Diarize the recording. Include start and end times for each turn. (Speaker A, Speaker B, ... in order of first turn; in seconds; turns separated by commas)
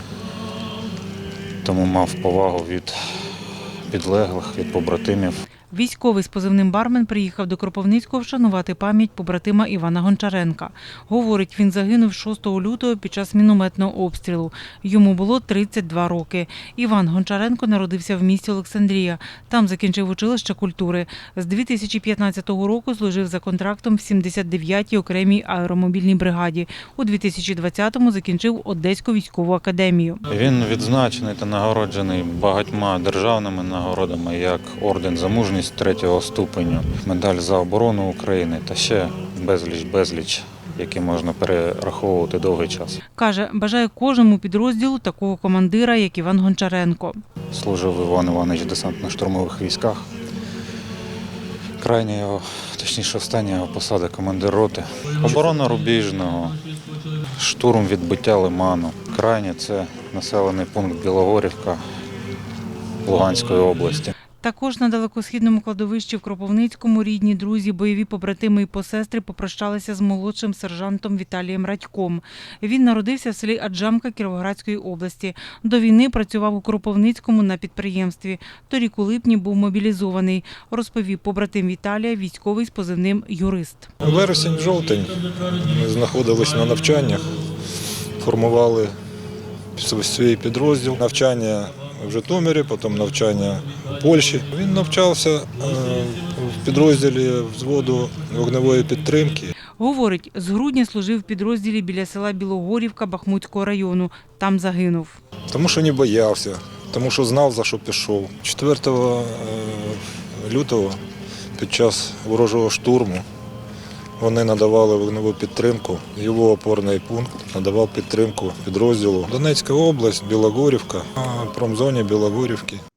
Speaker A: 1.6-3.0, Speaker A: 3.9-5.4, Speaker B: 5.7-30.2, Speaker A: 30.3-43.0, Speaker B: 43.2-47.2, Speaker A: 47.5-50.1, Speaker A: 51.8-56.5, Speaker A: 57.2-61.8, Speaker A: 63.0-64.1, Speaker B: 64.4-83.9, Speaker C: 84.0-87.4, Speaker C: 88.2-88.9, Speaker C: 89.8-99.5, Speaker B: 99.8-105.2, Speaker C: 105.5-111.0, Speaker C: 111.6-113.2, Speaker C: 114.2-122.8